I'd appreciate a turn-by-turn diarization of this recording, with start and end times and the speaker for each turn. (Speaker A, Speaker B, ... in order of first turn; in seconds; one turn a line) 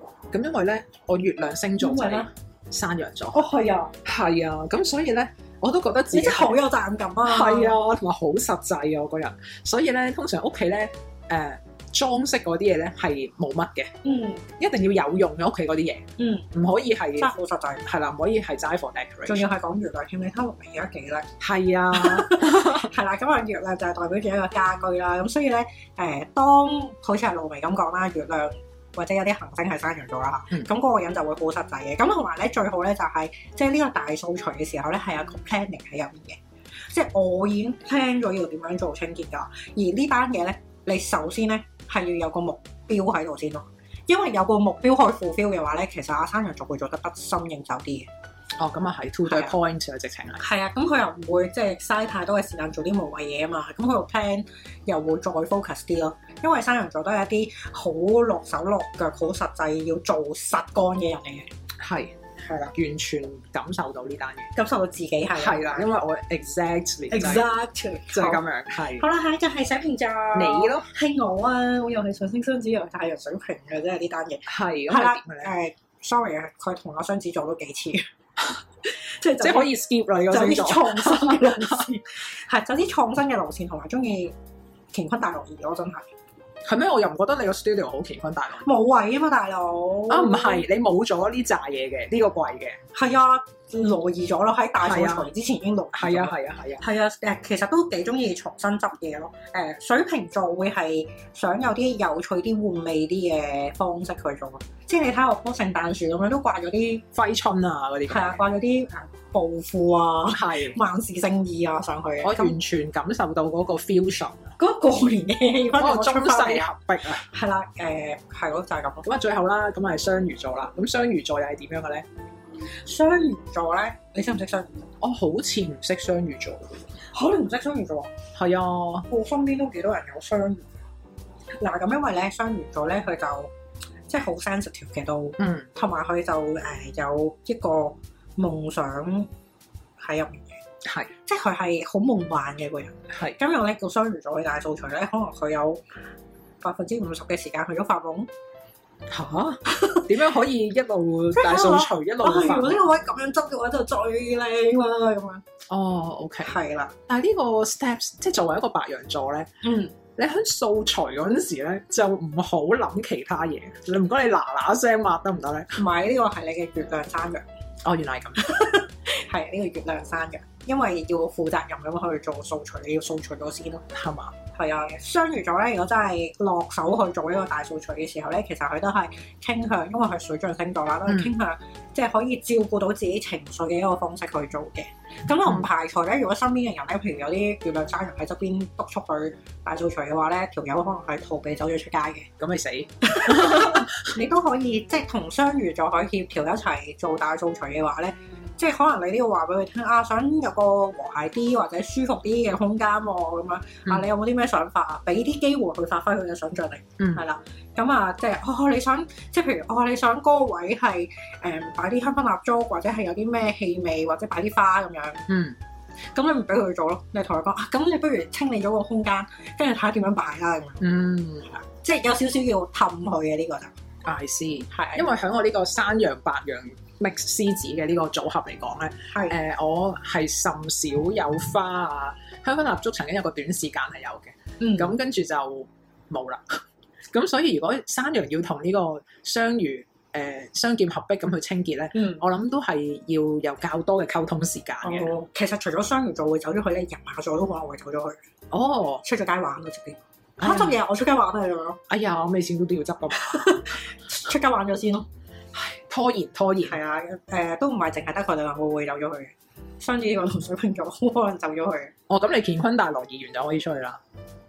Speaker A: 0.3-3.4
Speaker B: 1.8-2.3
Speaker B: 3.3-3.9
Speaker A: 4.0-6.6
Speaker B: 6.1-7.8
Speaker A: 7.2-13.9
Speaker B: 14.0-14.4
Speaker A: 14.6-17.3
Speaker B: 16.2-16.5
Speaker B: 17.2-17.8
Speaker A: 17.8-19.4
Speaker B: 19.2-21.3
Speaker A: 21.4-22.9
Speaker B: 21.9-48.1
Speaker A: 48.6-50.4
Speaker B: 49.2-49.5
Speaker B: 50.4-61.5
Speaker A: 61.8-62.2
Speaker B: 62.4-62.7
Speaker A: 62.7-64.5
Speaker B: 64.5-65.9
Speaker A: 65.3-67.5
Speaker B: 67.1-68.4
Speaker A: 68.1-69.0
Speaker B: 68.9-78.1
Speaker A: 70.3-70.9
Speaker A: 74.5-75.5
Speaker B: 78.8-79.7
Speaker A: 79.4-81.8
Speaker B: 80.3-84.3
Speaker B: 84.9-86.1
Speaker A: 86.6-88.7
Speaker B: 88.6-90.6
Speaker A: 90.1-92.8
Speaker B: 92.9-107.0
Speaker A: 94.8-95.3
Speaker A: 95.9-96.8
Speaker A: 107.1-108.3
Speaker B: 108.1-112.5
Speaker A: 110.3-110.8
Speaker A: 112.2-114.5
Speaker B: 114.6-116.7
Speaker A: 115.8-117.2
Speaker B: 117.2-119.0
Speaker A: 119.0-122.0
Speaker B: 122.8-124.9
Speaker A: 125.0-126.9
Speaker B: 127.1-128.1
Speaker A: 128.3-129.1
Speaker B: 129.1-130.6
Speaker B: 131.6-133.5
Speaker B: 134.1-139.3
Speaker A: 135.4-135.7
Speaker B: 140.0-140.6
Speaker A: 140.8-141.1
Speaker B: 141.2-145.8
Speaker A: 143.1-143.4
Speaker B: 146.6-148.3
Speaker A: 149.1-152.8
Speaker B: 149.7-150.1
Speaker B: 151.3-155.4
Speaker A: 155.7-156.5
Speaker B: 156.4-156.9
Speaker A: 157.1-159.5
Speaker B: 159.6-159.9
Speaker A: 160.2-165.8
Speaker B: 165.8-167.4
Speaker A: 167.8-168.6
Speaker B: 168.4-173.8
Speaker A: 173.9-174.3
Speaker B: 174.5-192.3
Speaker A: 181.1-181.3
Speaker A: 192.4-194.1
Speaker B: 193.0-215.3
Speaker A: 207.0-207.2
Speaker A: 215.3-215.6
Speaker B: 216.1-220.8
Speaker A: 220.8-221.6
Speaker B: 221.6-223.7
Speaker A: 224.0-245.1
Speaker B: 224.7-225.1
Speaker B: 229.1-229.3
Speaker B: 234.6-234.9
Speaker B: 241.9-242.2
Speaker B: 244.8-248.2
Speaker A: 248.5-249.0
Speaker B: 249.0-251.8
Speaker A: 250.4-250.8
Speaker A: 251.9-253.7
Speaker B: 253.2-255.1
Speaker A: 255.5-256.8
Speaker B: 256.6-261.9
Speaker A: 262.1-264.0